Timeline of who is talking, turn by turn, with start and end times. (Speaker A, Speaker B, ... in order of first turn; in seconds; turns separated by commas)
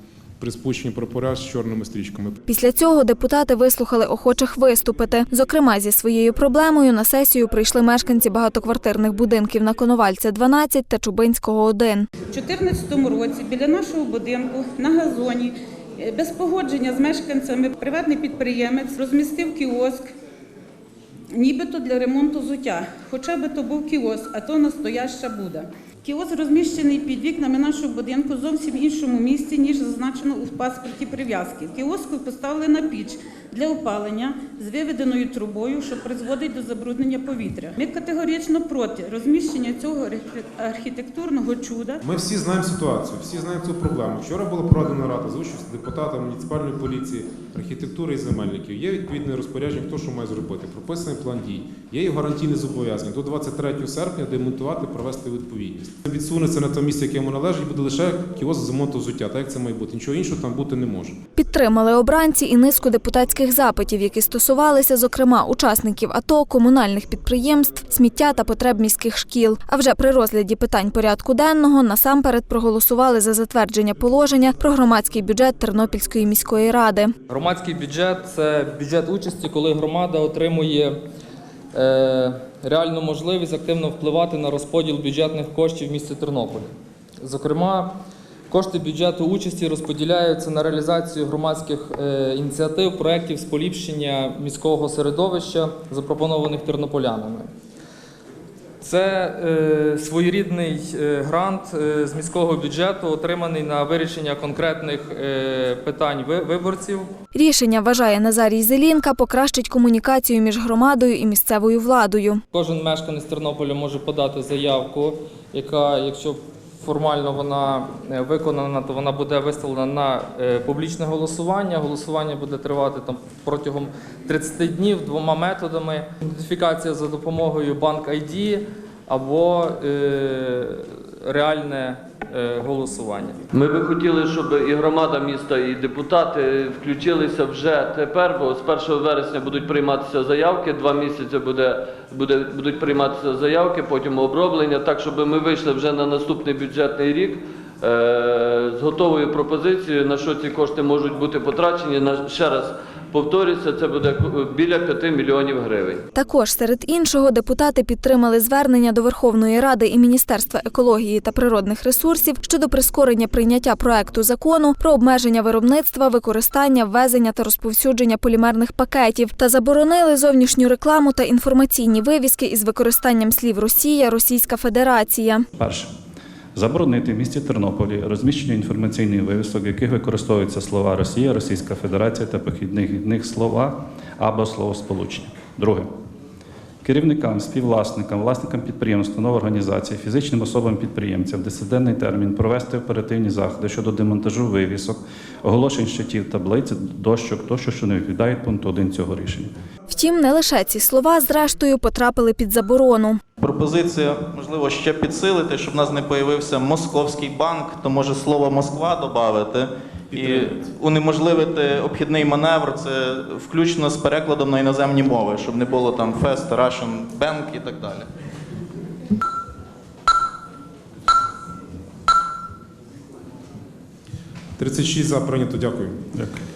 Speaker A: 0.4-2.4, Speaker B: 2.5-12.1, Speaker C: 12.3-20.1, Speaker C: 21.3-42.0, Speaker A: 42.0-61.2, Speaker B: 61.3-77.1, Speaker D: 77.3-80.9, Speaker D: 81.7-87.9, Speaker D: 88.5-97.5, Speaker D: 98.8-107.1, Speaker B: 107.3-112.4, Speaker D: 112.5-133.4, Speaker E: 133.5-156.0, Speaker B: 156.1-175.4, Speaker F: 175.6-175.9, Speaker F: 176.5-185.9, Speaker F: 186.8-199.5, Speaker B: 199.9-203.2, Speaker G: 203.4-218.1, Speaker A: 224.6-226.0